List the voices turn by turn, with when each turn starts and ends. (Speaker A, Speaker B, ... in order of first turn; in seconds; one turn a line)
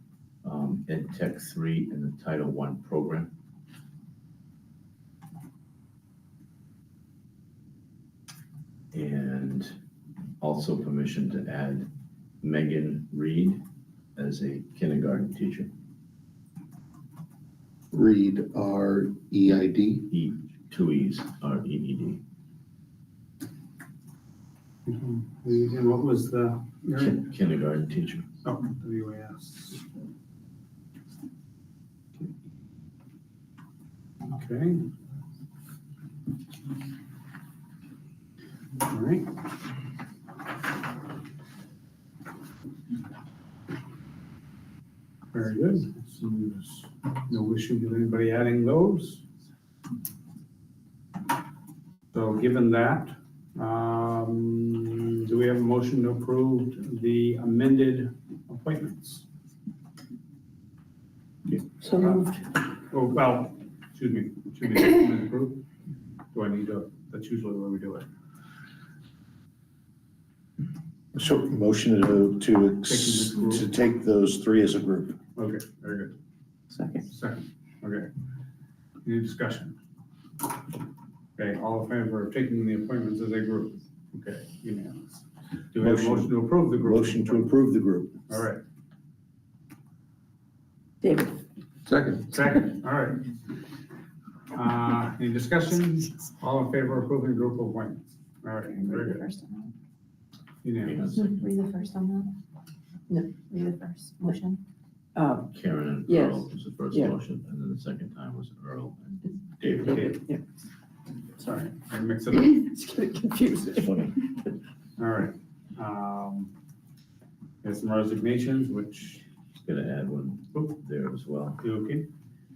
Speaker A: 0.4-3.3
Speaker A: 8.9-9.7
Speaker A: 10.4-11.9
Speaker A: 12.4-13.6
Speaker A: 14.2-15.7
Speaker B: 17.9-20.1
Speaker A: 20.1-22.2
Speaker C: 24.9-27.3
Speaker A: 27.0-28.3
Speaker C: 28.4-29.8
Speaker C: 34.3-34.9
Speaker C: 38.8-39.4
Speaker C: 45.3-49.2
Speaker C: 52.1-59.3
Speaker D: 61.8-62.4
Speaker C: 62.0-62.3
Speaker C: 62.9-65.7
Speaker C: 66.3-68.1
Speaker B: 71.1-75.2
Speaker C: 72.8-73.7
Speaker C: 75.4-76.2
Speaker D: 76.8-77.0
Speaker C: 77.0-78.1
Speaker C: 79.0-79.8
Speaker C: 81.4-87.5
Speaker B: 85.8-88.2
Speaker C: 88.3-88.6
Speaker D: 91.0-91.4
Speaker C: 92.2-93.4
Speaker C: 94.5-99.3
Speaker E: 98.8-99.7
Speaker C: 100.6-101.1
Speaker A: 100.8-101.6
Speaker E: 101.4-102.3
Speaker D: 103.1-104.4
Speaker E: 103.4-104.6
Speaker D: 105.2-105.5
Speaker A: 105.5-110.1
Speaker D: 106.1-107.1
Speaker C: 109.8-110.2
Speaker D: 109.8-110.4
Speaker C: 111.4-112.7
Speaker D: 112.3-114.1
Speaker A: 113.8-114.2
Speaker C: 115.0-116.5
Speaker C: 117.6-119.3
Speaker A: 119.6-121.6
Speaker C: 121.6-122.1